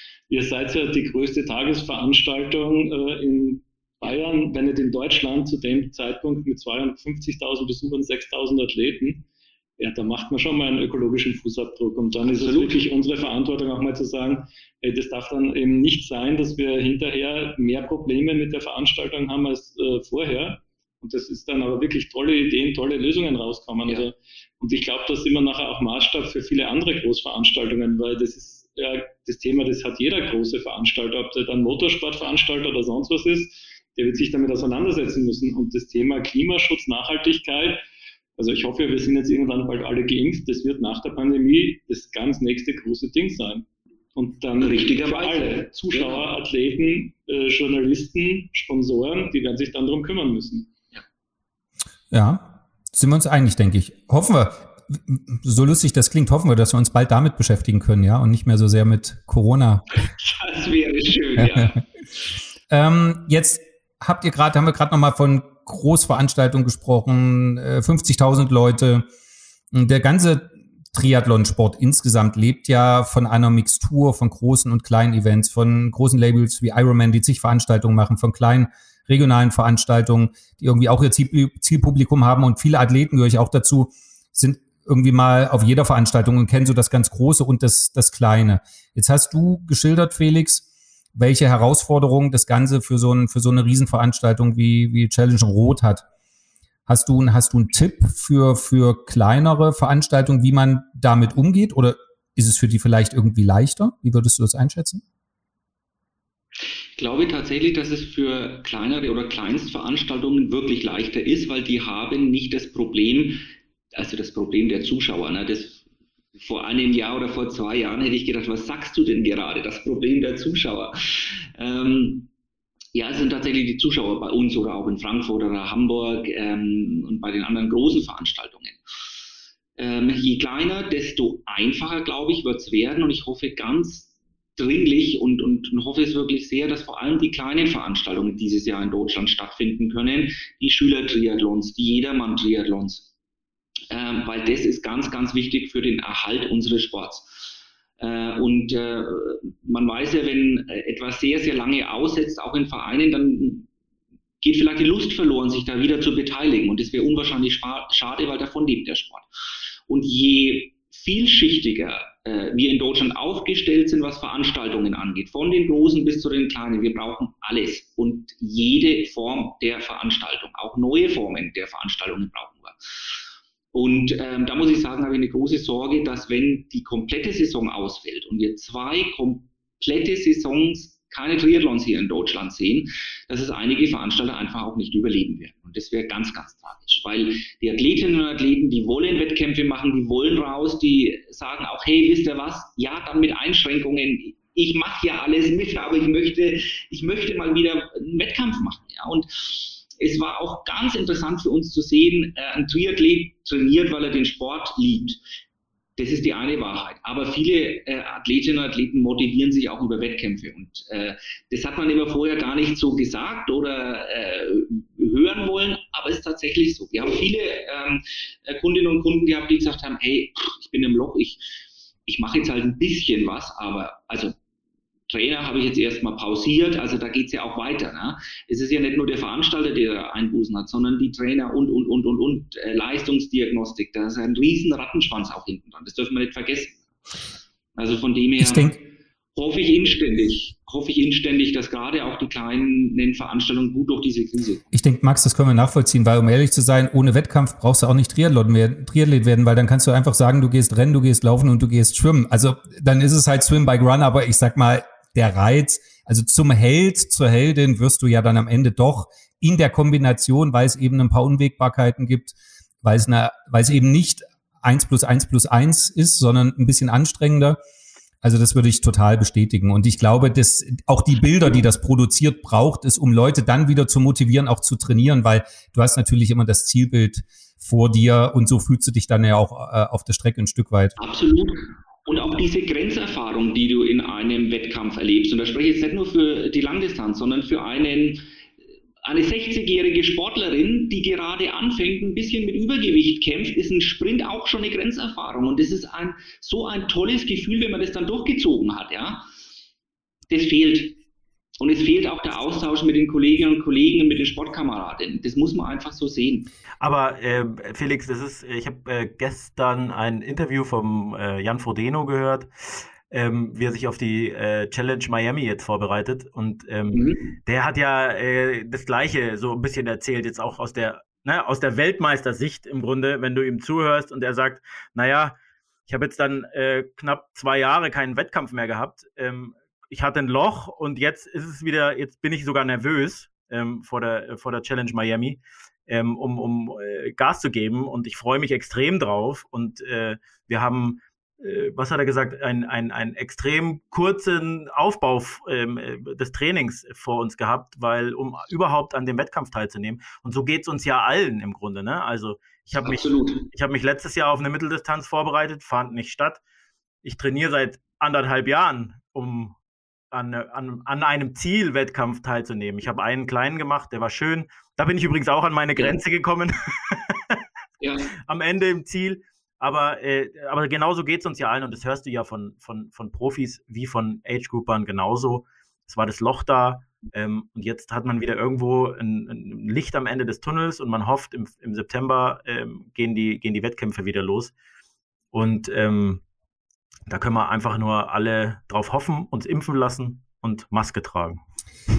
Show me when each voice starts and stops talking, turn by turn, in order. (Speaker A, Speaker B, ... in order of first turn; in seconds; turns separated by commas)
Speaker A: 0.3-9.3, Speaker A: 9.8-37.8, Speaker B: 12.2-12.8, Speaker A: 38.4-50.7, Speaker B: 44.6-46.2, Speaker C: 52.1-60.0, Speaker B: 60.1-61.8, Speaker C: 61.4-61.7, Speaker C: 62.7-69.0, Speaker C: 69.7-96.0, Speaker C: 96.9-105.0, Speaker B: 107.0-115.8, Speaker B: 116.4-122.3, Speaker B: 122.9-128.8, Speaker B: 129.8-143.1, Speaker B: 143.9-153.7, Speaker B: 154.4-159.3, Speaker B: 159.9-172.9, Speaker B: 173.7-205.2, Speaker B: 206.0-221.5, Speaker B: 222.1-224.3, Speaker B: 225.1-236.9, Speaker B: 237.8-244.7, Speaker C: 238.4-238.8, Speaker C: 244.7-267.6, Speaker C: 268.2-281.0, Speaker B: 281.0-288.2, Speaker B: 289.0-299.3, Speaker B: 300.3-301.0, Speaker B: 301.6-306.5, Speaker D: 306.8-312.5, Speaker D: 313.1-356.4, Speaker B: 316.9-317.4, Speaker B: 352.8-353.5, Speaker D: 357.0-359.6, Speaker D: 360.1-367.4, Speaker B: 367.8-368.1, Speaker D: 368.3-384.5, Speaker D: 385.3-386.2, Speaker D: 387.1-391.4